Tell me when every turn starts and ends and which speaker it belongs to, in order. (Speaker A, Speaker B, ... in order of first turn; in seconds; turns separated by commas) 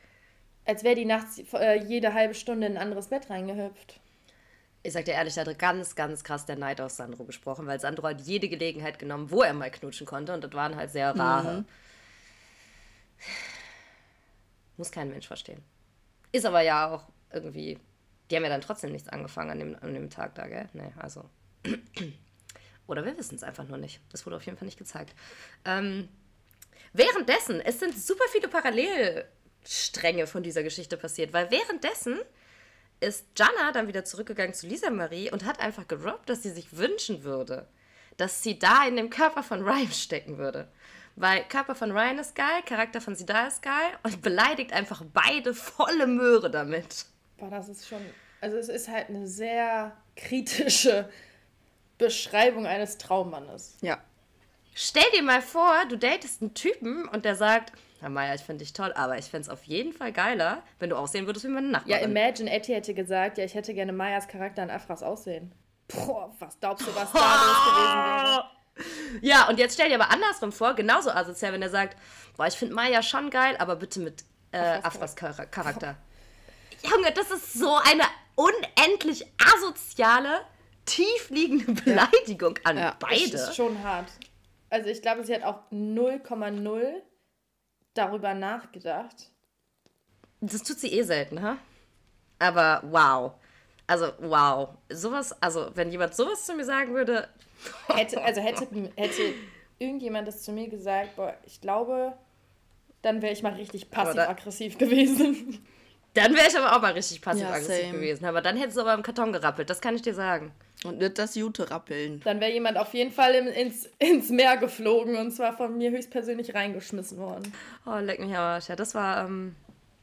Speaker A: 0.7-4.0, Speaker B: 4.8-11.7, Speaker C: 11.2-11.7, Speaker B: 14.8-15.6, Speaker B: 16.3-22.2, Speaker B: 22.9-26.1, Speaker B: 26.9-32.2, Speaker B: 33.0-47.1, Speaker A: 47.4-51.1, Speaker A: 52.0-53.8, Speaker B: 54.8-62.2, Speaker A: 61.9-68.5, Speaker B: 66.8-76.0, Speaker A: 74.6-75.1, Speaker B: 76.8-83.6, Speaker A: 83.1-84.2, Speaker A: 84.7-87.0, Speaker A: 88.0-89.3, Speaker B: 90.4-91.6, Speaker B: 92.4-93.4, Speaker B: 93.9-98.3, Speaker A: 97.9-102.2, Speaker A: 103.0-105.6, Speaker B: 104.0-104.3, Speaker B: 106.2-110.5, Speaker C: 107.3-108.1, Speaker C: 110.8-112.2, Speaker A: 112.2-117.5, Speaker B: 117.8-119.6